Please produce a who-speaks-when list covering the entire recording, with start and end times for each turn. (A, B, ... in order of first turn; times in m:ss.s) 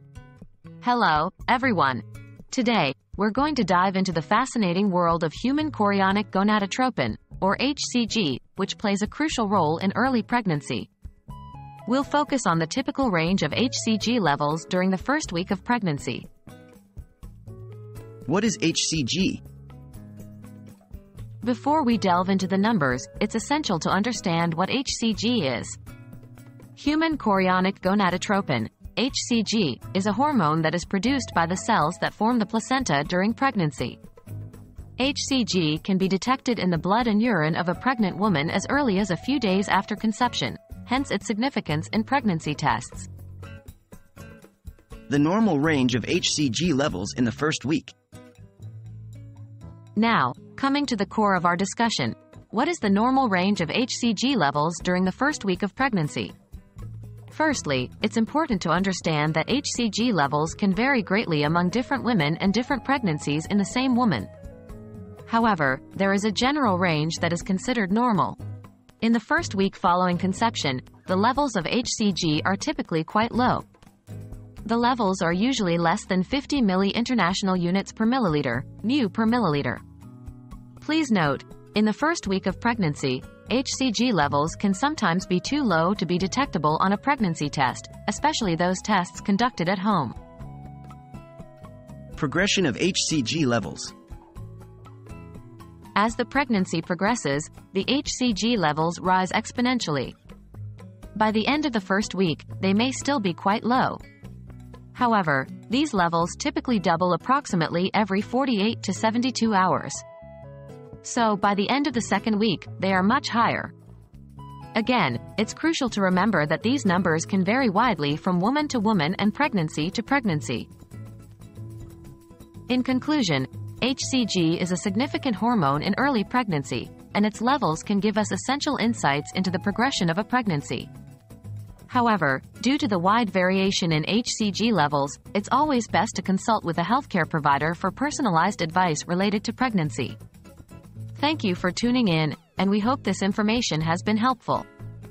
0:00.8-0:10.9 A
0:11.9-0:16.3 A
0:18.3-0:19.4 B
0:21.4-0:25.8 A
0:26.8-0:34.0 A
0:35.0-0:43.1 A
0:45.1-0:47.9 B
0:50.0-0:56.3 A
0:57.3-1:04.3 A
1:05.3-1:08.4 A
1:09.0-1:13.7 A
1:14.6-1:19.8 A
1:20.8-1:30.2 A
1:32.2-1:33.9 B
1:36.0-1:40.2 A
1:41.2-1:44.0 A
1:44.9-1:50.0 A
1:51.0-1:53.7 A
1:54.8-2:00.7 A
2:02.7-2:10.9 A
2:11.9-2:20.2 A
2:21.2-2:24.7 A